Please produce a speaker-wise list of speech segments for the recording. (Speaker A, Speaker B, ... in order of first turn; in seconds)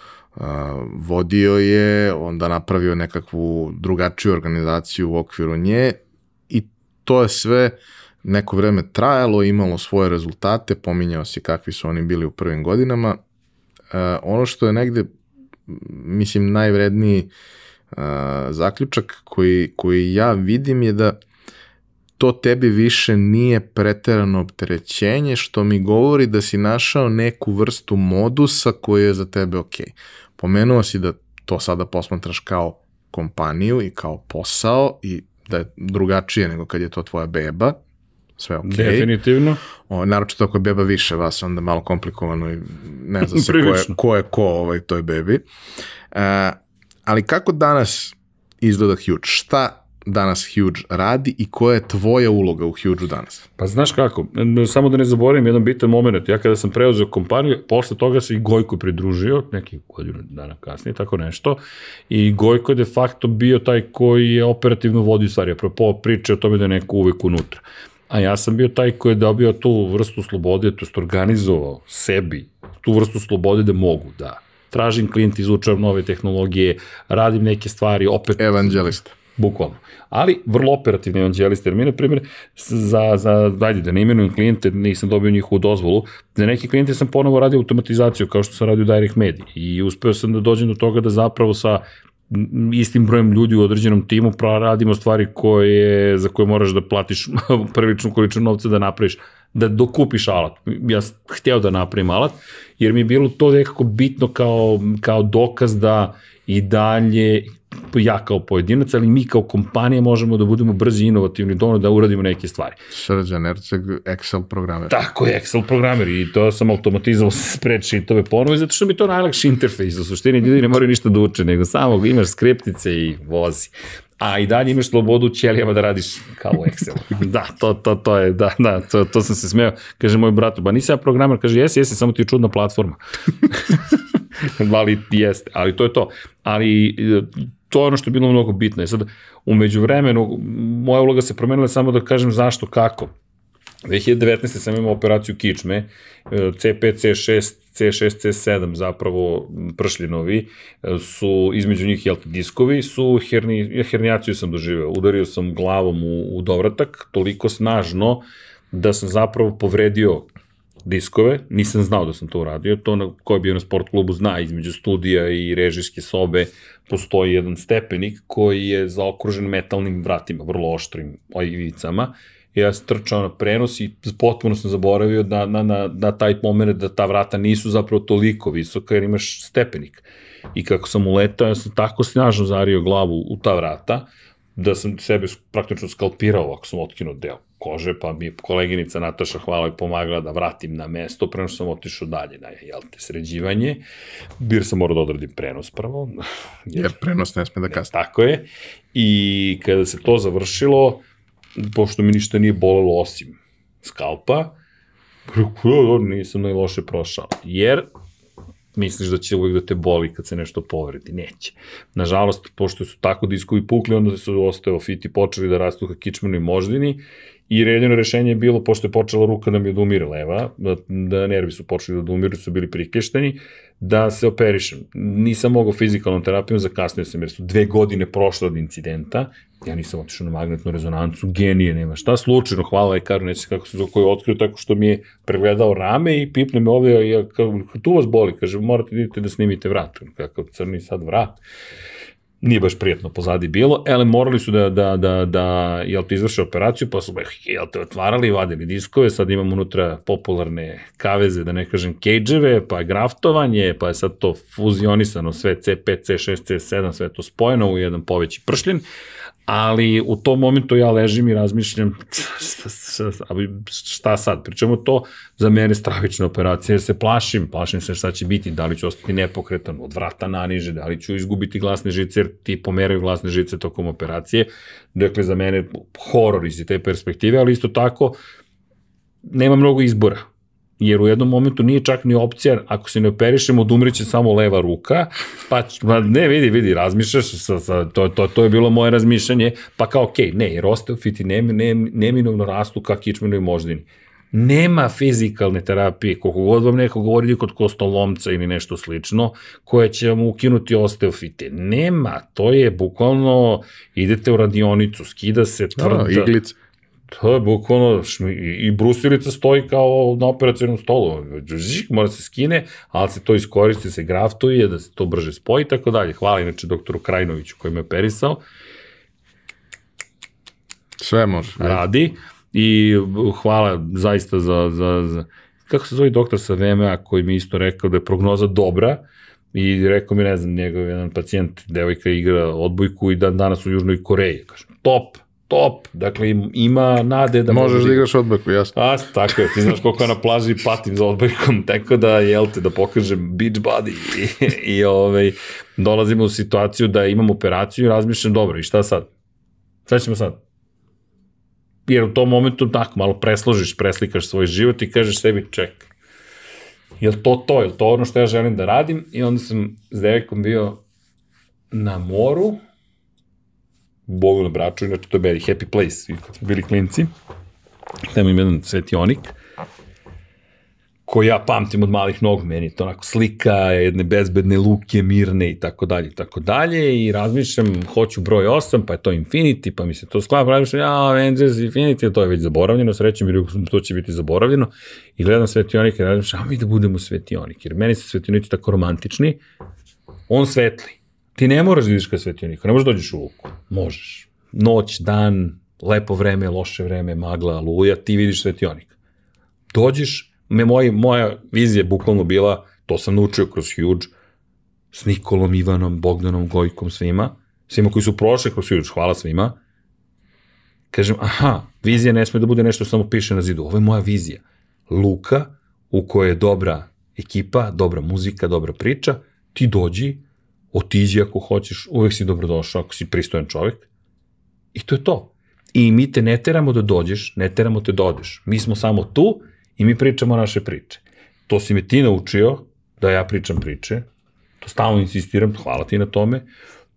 Speaker A: 0.3-13.2, 13.9-15.1, 15.7-17.3, 17.9-21.2, 22.2-37.8, 38.4-39.1, 39.8-45.4, 46.1-53.5, 78.4-79.2, 112.9-115.0, 196.7-197.9, 305.8-306.6, 321.0-321.8, 337.5-338.7, 339.3-339.7
Speaker B: 38.6-39.6, 43.2-44.0, 53.6-112.8, 114.9-143.1, 143.8-160.3, 160.8-193.8, 194.4-196.9, 197.7-201.0, 201.6-204.5, 205.3-207.8, 208.7-241.4, 242.4-258.8, 259.5-278.2, 279.2-280.2, 280.8-306.4, 307.1-318.4, 321.6-329.0, 329.5-338.1, 338.7-349.1, 349.9-350.4, 351.9-355.9, 357.0-360.8, 361.7-362.6, 364.1-367.1, 368.1-369.4, 371.1-389.4, 390.3-398.9, 399.7-404.1, 404.9-409.6, 410.9-423.9, 424.7-434.0, 434.6-436.4